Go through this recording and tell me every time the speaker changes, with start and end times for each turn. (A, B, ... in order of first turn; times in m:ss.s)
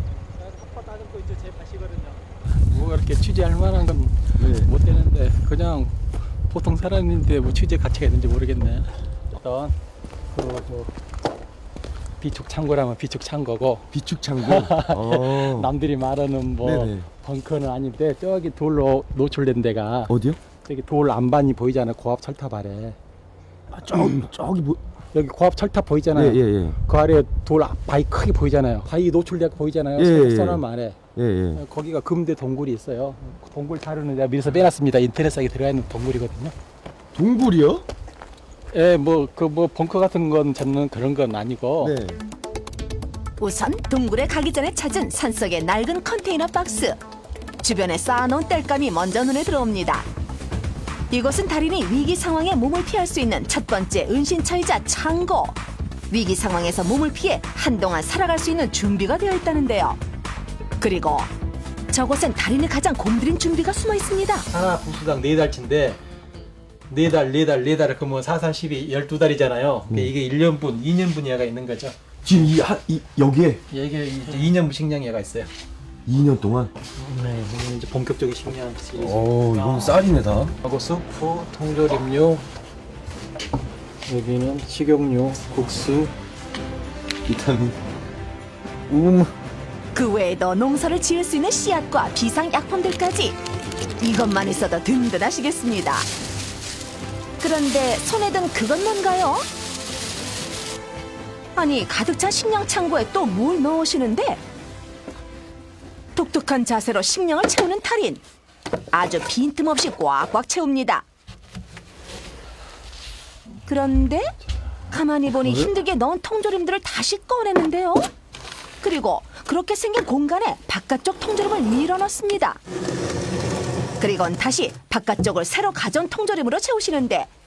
0:00.4-0:09.8 A
0:04.4-0:04.7 B
0:10.3-0:10.9 A
0:12.2-0:13.9 A
0:13.9-0:15.7 B
0:14.4-0:23.0 A
0:16.6-0:17.1 B
0:20.1-0:20.4 B
0:23.7-0:24.8 B
0:25.1-0:31.0 A
0:26.1-0:26.8 B
0:30.0-0:30.6 B
0:31.2-0:31.6 B
0:31.5-0:36.6 A
0:37.2-0:37.9 B
0:38.7-0:42.0 A
0:41.8-0:42.2 B
0:43.4-0:47.0 C
0:47.6-0:50.1 C
0:51.1-0:55.6 C
0:56.1-1:00.0 C
1:00.8-1:01.3 C
1:01.9-1:04.5 C
1:04.5-1:06.0 A
1:06.9-1:12.0 A
1:12.2-1:13.6 B
1:13.7-1:15.5 A
1:16.1-1:16.7 B
1:17.0-1:20.0 A
1:19.0-1:20.6 B
1:20.6-1:22.5 A
1:24.0-1:26.1 A
1:27.3-1:27.8 B
1:28.9-1:29.3 B
1:29.9-1:33.4 C
1:34.0-1:36.1 C
1:37.4-1:39.5 C
1:41.6-1:44.4 C
1:46.1-1:48.2 C
1:48.9-1:51.0 C
1:53.6-1:54.3 C
1:54.9-1:58.1 C
1:58.8-2:02.6 C
2:04.0-2:07.3 C